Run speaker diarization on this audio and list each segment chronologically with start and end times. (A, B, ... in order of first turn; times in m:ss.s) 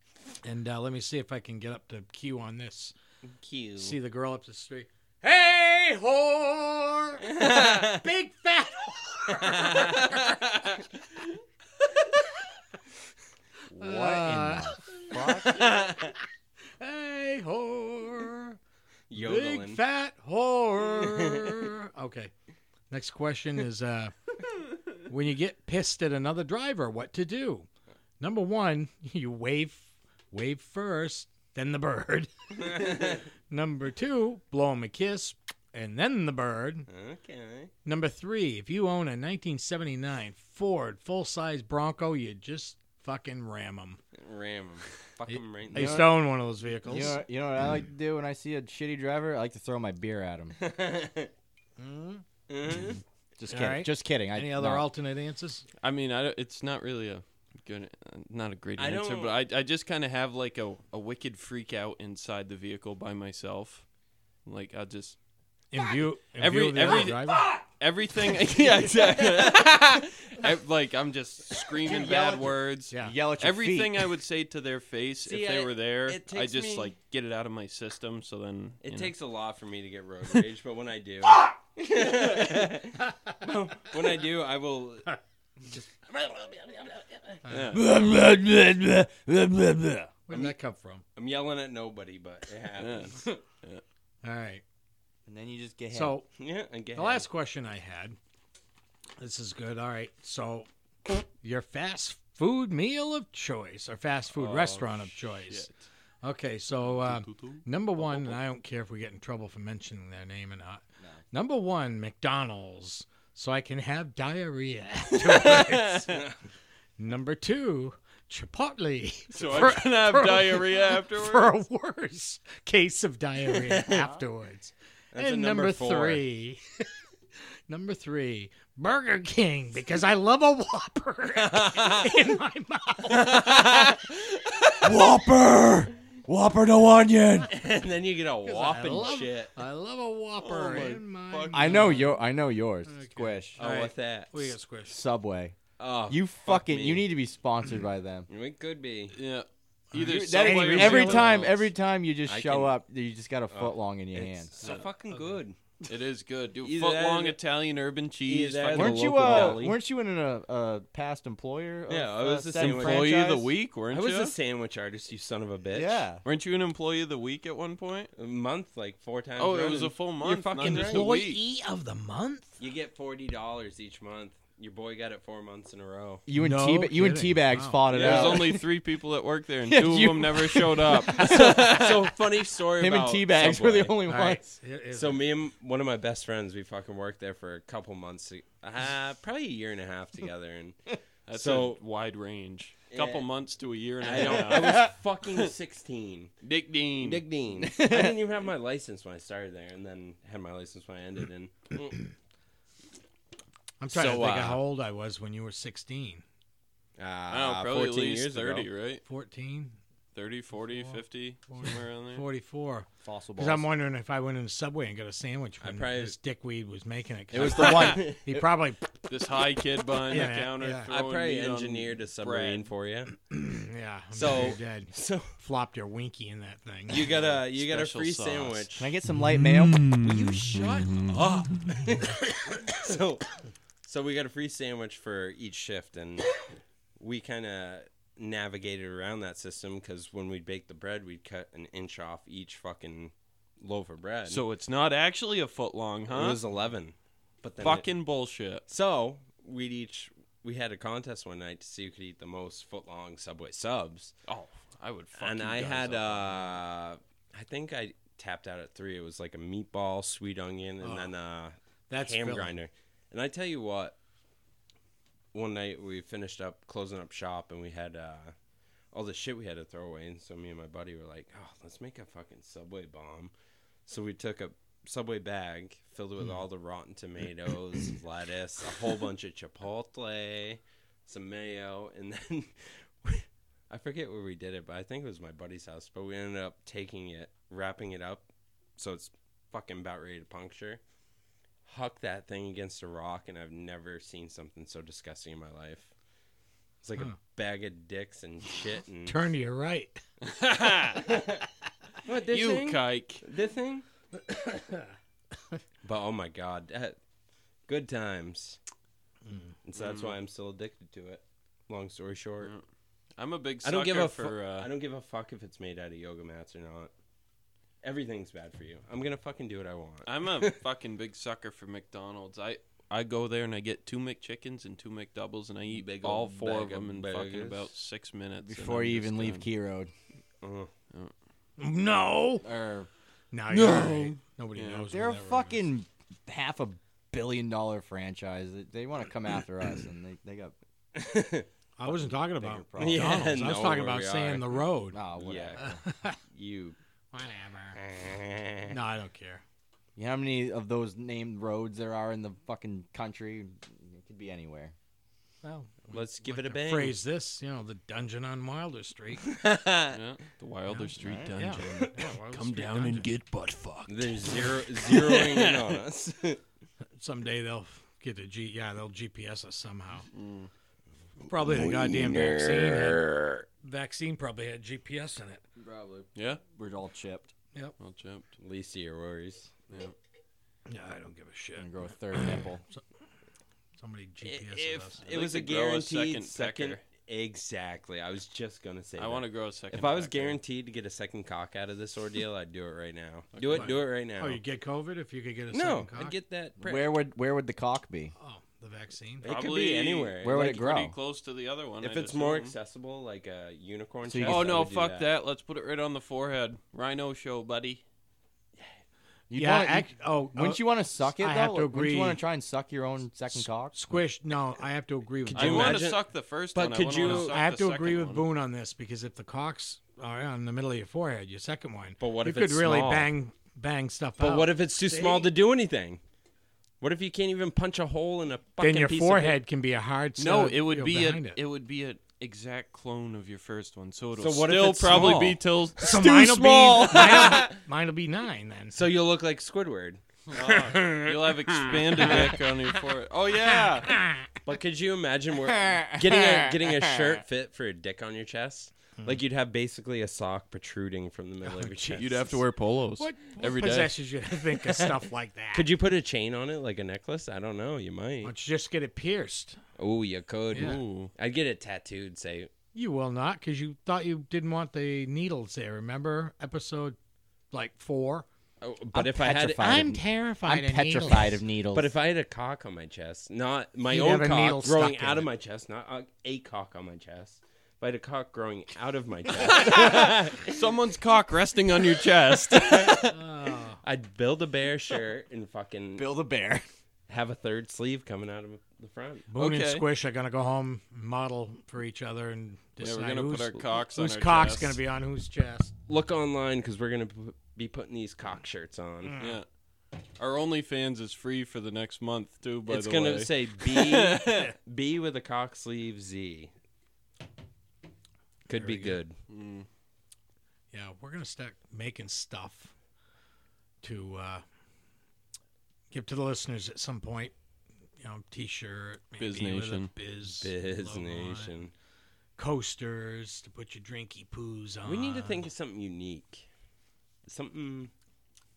0:00.4-0:02.9 A
0:03.2-0:04.0 B
0:03.8-0:10.2 A
0:07.3-0:08.0 B
0:09.4-0:10.4 B
0:13.7-0:14.3 B
0:13.8-0:15.7 A
0:14.2-0:14.8 C
0:15.1-0:16.1 B
0:16.8-0:18.6 A
0:19.1-0:19.8 B
0:19.1-0:22.3 A
0:21.0-0:21.6 B
0:22.9-0:24.1 A
0:25.0-0:27.7 A
0:28.2-0:36.9 A
0:36.9-0:37.7 B
0:37.8-0:44.0 A
0:44.2-0:46.0 B
0:45.2-0:47.2 A
0:45.7-0:46.3 C
0:46.8-0:50.5 C
0:50.6-0:51.3 B
0:51.8-0:52.2 A
0:52.5-0:53.0 B
0:53.4-0:54.9 C
0:53.5-0:55.6 A
0:55.8-1:03.8 D
0:58.8-0:59.4 B
1:04.4-1:05.2 D
1:05.7-1:07.4 A
1:06.4-1:19.1 D
1:11.8-1:14.1 C
1:15.2-1:16.9 B
1:18.8-1:25.1 B
1:25.7-1:27.4 B
1:27.4-1:27.7 A
1:27.5-1:27.8 D
1:27.7-1:30.1 C
1:30.3-1:31.0 A
1:30.3-1:30.6 B
1:31.2-1:33.2 B
1:32.8-1:33.8 D
1:34.2-1:34.6 A
1:35.2-1:36.2 C
1:35.9-1:36.3 A
1:36.4-1:37.2 B
1:36.9-1:38.2 A
1:39.2-1:45.7 A
1:44.3-1:45.8 D
1:46.2-1:56.2 A
1:46.8-1:48.4 D
1:57.0-2:06.9 A
1:59.3-2:01.5 D
2:03.7-2:04.0 B
2:05.1-2:06.2 B
2:07.7-2:13.4 A
2:11.4-2:12.1 B
2:13.1-2:14.1 B
2:14.8-2:17.5 C
2:17.5-2:19.5 B
2:18.4-2:22.2 A
2:20.4-2:22.1 D
2:21.5-2:23.6 C
2:22.9-2:25.0 A
2:23.6-2:24.6 B
2:24.9-2:28.3 C
2:25.8-2:27.1 B
2:28.3-2:29.2 B
2:29.1-2:31.7 D
2:29.9-2:31.3 A
2:30.0-2:34.5 C
2:32.2-2:32.8 B
2:33.5-2:35.6 B
2:34.6-2:39.6 D
2:36.6-2:37.4 B
2:38.2-2:39.8 B
2:38.7-2:43.5 C
2:41.9-2:43.0 B
2:42.6-2:44.3 D
2:43.9-2:46.0 B
2:45.7-2:46.2 C
2:46.2-2:48.1 D
2:48.1-2:51.1 B
2:49.4-2:51.4 D
2:50.6-2:52.6 A
2:52.6-2:56.2 B
2:56.2-2:58.6 C
2:56.3-2:57.8 A
2:57.9-3:01.6 D
2:57.9-2:58.4 B
2:59.6-3:02.1 C
3:01.2-3:04.0 B
3:02.8-3:04.4 C
3:04.1-3:05.2 A
3:04.9-3:11.8 B
3:11.3-3:14.9 D
3:12.9-3:13.3 B
3:14.0-3:16.3 B
3:14.5-3:14.8 C
3:16.4-3:17.2 D
3:17.0-3:22.1 B
3:17.6-3:18.2 C
3:23.8-3:26.2 A
3:23.9-3:24.6 B
3:27.0-3:28.7 B
3:27.3-3:29.0 D
3:29.0-3:29.8 A
3:30.1-3:32.2 D
3:30.6-3:31.0 A
3:31.5-3:38.9 A
3:33.0-3:33.7 C
3:35.6-3:36.2 B
3:37.3-3:38.5 C
3:37.3-3:38.0 D
3:39.1-3:42.7 D
3:40.1-3:40.9 A
3:40.9-3:43.1 B
3:43.3-3:47.1 A
3:44.1-3:45.3 B
3:46.9-3:48.9 B
3:47.1-3:48.7 D
3:48.8-3:50.0 C
3:49.4-3:51.5 D
3:50.0-3:56.4 B
3:57.0-4:04.4 B
4:04.2-4:06.4 D
4:06.1-4:07.9 B
4:07.6-4:08.6 D
4:08.7-4:14.1 B
4:14.3-4:16.6 D
4:15.2-4:24.0 B
4:20.8-4:21.1 A
4:21.9-4:22.5 A
4:25.3-4:28.3 B
4:28.9-4:33.3 B
4:33.9-4:50.8 B
4:51.6-4:55.9 B
4:56.8-4:59.2 B
4:59.0-5:00.0 A
5:00.2-5:01.1 D
5:01.0-5:01.4 B
5:02.0-5:03.8 B
5:02.3-5:03.2 D
5:04.3-5:04.9 A
5:05.8-5:07.0 B
5:07.7-5:08.6 B
5:09.2-5:09.5 A
5:09.6-5:12.5 B
5:09.8-5:10.2 D
5:12.4-5:12.6 D
5:13.2-5:14.7 D
5:13.6-5:16.9 B
5:17.8-5:20.6 B
5:20.0-5:29.5 D
5:25.7-5:27.7 B
5:28.4-5:29.9 C
5:30.4-5:30.7 B
5:31.6-5:32.4 A
5:32.4-5:32.9 C
5:33.3-5:35.7 A
5:33.5-5:34.8 D
5:34.9-5:40.5 C
5:40.9-5:41.5 B
5:41.8-5:45.0 A
5:41.8-5:43.3 C
5:42.8-5:44.6 B
5:44.9-5:45.8 C
5:45.2-5:45.7 B
5:45.6-5:46.2 A
5:46.3-5:46.8 B
5:47.1-5:47.8 A
5:47.8-5:48.7 B
5:48.7-5:49.4 A
5:50.0-5:54.7 C
5:55.4-5:59.2 A
5:55.9-5:57.0 B
5:59.2-6:00.0 B
5:59.9-6:05.7 D
6:00.7-6:03.1 A
6:01.0-6:01.3 C
6:03.9-6:06.4 B
6:07.0-6:10.1 A
6:10.1-6:10.5 D
6:11.2-6:15.4 A
6:11.6-6:13.2 B
6:15.6-6:17.3 C
6:16.1-6:16.4 D
6:17.8-6:18.3 D
6:18.4-6:19.7 B
6:19.7-6:19.9 D
6:20.7-6:22.8 A
6:21.6-6:22.6 C
6:23.8-6:25.0 A
6:24.2-6:34.4 B
6:25.0-6:26.8 D
6:29.0-6:30.4 D
6:33.3-6:33.8 D
6:33.5-6:36.2 A
6:35.5-6:37.0 B
6:36.6-6:38.1 C
6:38.2-6:39.3 A
6:39.2-6:40.4 B
6:39.2-6:42.5 D
6:40.2-6:41.0 C
6:41.8-6:45.1 B
6:44.0-6:44.6 C
6:44.2-6:47.8 D
6:49.3-6:54.0 C
6:49.3-6:52.2 A
6:53.3-6:55.8 A
6:55.2-6:57.4 B
6:55.3-6:58.2 D
6:57.0-7:05.3 A
7:02.0-7:03.1 B
7:04.2-7:06.0 B
7:06.8-7:09.4 B
7:08.6-7:11.4 A
7:10.2-7:17.4 D
7:14.2-7:15.4 B
7:14.9-7:15.2 A
7:15.8-7:18.8 A
7:16.8-7:17.5 C
7:18.7-7:20.0 B
7:20.3-7:24.0 D
7:20.4-7:22.4 A
7:22.0-7:22.2 B
7:23.4-7:24.3 A
7:24.4-7:32.4 B
7:25.4-7:27.2 C
7:31.4-7:32.1 A
7:31.9-7:33.9 D
7:33.0-7:35.7 A
7:34.6-7:35.0 B
7:35.5-7:38.3 B
7:38.2-7:39.6 A
7:39.8-7:42.5 B
7:40.5-7:41.1 D
7:40.5-7:40.8 A
7:42.7-7:47.0 A
7:47.5-7:48.2 A
7:48.6-7:49.7 B
7:48.9-7:51.9 C
7:49.6-7:51.4 A
7:51.7-8:00.4 B
7:53.9-7:55.3 A
7:59.4-8:03.2 D
8:02.6-8:03.1 B
8:03.1-8:03.8 A
8:03.8-8:06.0 B
8:06.0-8:06.6 C
8:07.1-8:09.3 B
8:09.3-8:15.7 A
8:09.4-8:09.8 D
8:12.8-8:14.8 D
8:15.9-8:19.2 B
8:19.0-8:19.4 A
8:19.2-8:19.4 D
8:20.2-8:24.5 D
8:22.7-8:26.5 B
8:28.5-8:29.2 B
8:28.5-8:29.0 A
8:29.3-8:29.7 D
8:30.7-8:32.7 A
8:33.8-8:34.4 A
8:35.9-8:37.3 A
8:38.0-8:41.6 A
8:39.2-8:39.9 D
8:40.3-8:41.7 B
8:42.4-8:45.5 A
8:44.8-8:46.5 B
8:47.2-8:47.9 B